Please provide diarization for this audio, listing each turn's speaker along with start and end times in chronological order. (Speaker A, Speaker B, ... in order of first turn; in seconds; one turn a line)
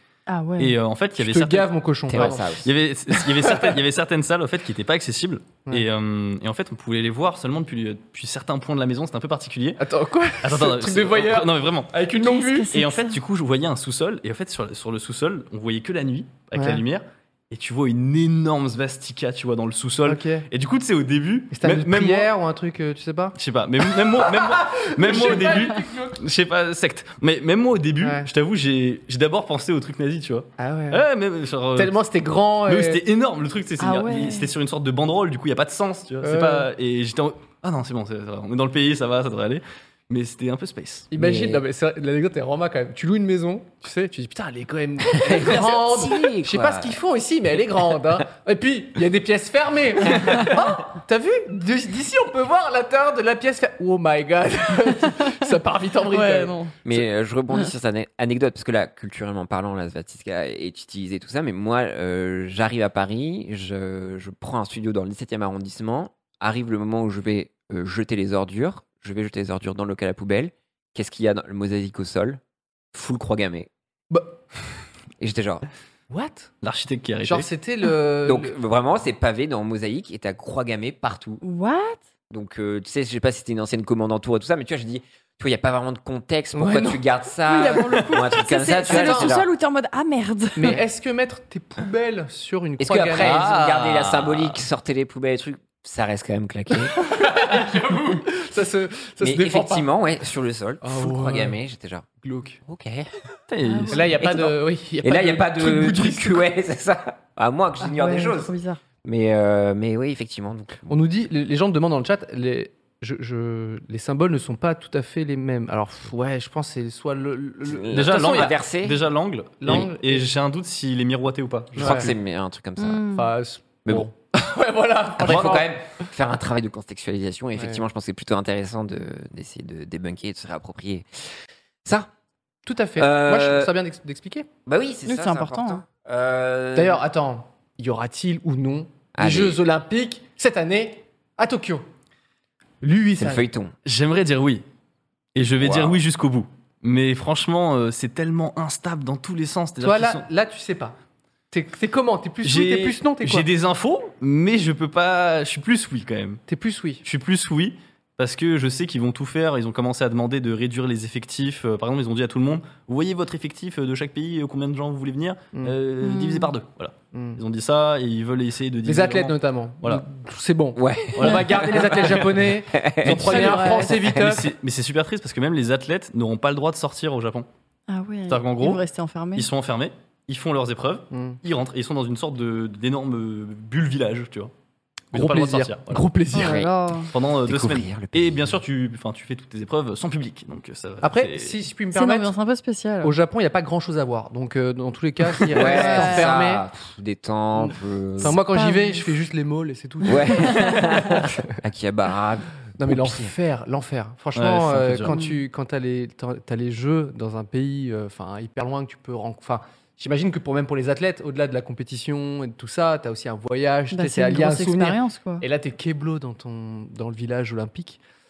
Speaker A: 0.3-0.7
Speaker B: 0.6-9.8
Speaker C: 1.2-2.6
Speaker D: 2.1-2.7
Speaker C: 3.1-3.8
Speaker C: 9.8-12.7
Speaker B: 10.4-11.9
Speaker A: 12.2-13.1
Speaker B: 12.7-22.3
Speaker C: 16.6-16.8
Speaker C: 20.0-20.4
Speaker C: 21.5-23.4
Speaker B: 23.4-31.9
Speaker C: 24.1-26.2
Speaker C: 28.0-28.3
Speaker C: 30.6-31.0
Speaker C: 31.8-33.0
Speaker B: 32.6-41.1
Speaker A: 33.8-34.5
Speaker C: 36.2-36.7
Speaker C: 41.1-57.0
Speaker D: 41.1-41.6
Speaker D: 45.2-47.0
Speaker A: 56.1-56.7
Speaker D: 56.8-72.4
Speaker D: 72.9-73.7
Speaker C: 74.1-74.4
Speaker D: 75.2-75.7
Speaker C: 76.1-76.5
Speaker B: 76.6-77.5
Speaker C: 77.2-78.5
Speaker D: 78.2-81.4
Speaker A: 81.4-82.0
Speaker D: 82.3-89.5
Speaker C: 86.5-87.0
Speaker A: 87.5-90.8
Speaker C: 87.7-89.3
Speaker C: 90.5-93.4
Speaker D: 92.8-97.1
Speaker B: 93.2-94.6
Speaker C: 96.9-99.9
Speaker D: 99.2-102.1
Speaker C: 100.8-101.6
Speaker C: 102.2-102.6
Speaker D: 102.6-103.1
Speaker B: 103.5-104.1
Speaker A: 103.7-104.0
Speaker C: 103.9-106.5
Speaker D: 104.2-108.5
Speaker A: 107.8-108.8
Speaker D: 109.0-111.0
Speaker C: 110.9-118.6
Speaker D: 117.6-119.0
Speaker B: 117.9-122.1
Speaker C: 119.6-120.3
Speaker D: 121.8-123.1
Speaker C: 121.8-122.1
Speaker A: 122.8-123.3
Speaker C: 123.1-125.8
Speaker D: 125.2-132.1
Speaker C: 127.6-127.8
Speaker C: 132.6-134.5
Speaker D: 133.0-133.7
Speaker D: 134.7-137.0
Speaker A: 135.1-135.8
Speaker C: 136.7-141.8
Speaker D: 139.1-139.6
Speaker C: 142.8-143.4
Speaker D: 143.2-143.7
Speaker B: 143.8-144.6
Speaker B: 145.3-150.2
Speaker D: 145.6-146.0
Speaker C: 149.8-150.9
Speaker C: 151.5-153.4
Speaker B: 152.4-156.4
Speaker C: 156.5-157.0
Speaker B: 157.0-170.0
Speaker A: 166.0-166.5
Speaker C: 167.1-167.4
Speaker C: 168.8-174.5
Speaker D: 170.8-174.1
Speaker B: 171.2-171.4
Speaker B: 173.0-177.4
Speaker A: 173.2-173.9
Speaker A: 177.9-179.5
Speaker B: 178.3-178.8
Speaker B: 179.3-184.5
Speaker C: 181.1-181.4
Speaker B: 185.1-186.1
Speaker C: 185.1-186.6
Speaker A: 186.3-187.1
Speaker D: 186.3-186.7
Speaker B: 187.1-191.6
Speaker D: 187.4-188.5
Speaker C: 191.0-192.3
Speaker A: 191.9-193.1
Speaker C: 193.0-196.7
Speaker D: 195.5-198.4
Speaker A: 195.5-196.3
Speaker C: 197.6-201.4
Speaker A: 198.2-199.1
Speaker D: 200.0-203.3
Speaker C: 202.8-218.0
Speaker B: 204.3-205.1
Speaker A: 205.1-205.3
Speaker A: 213.9-215.4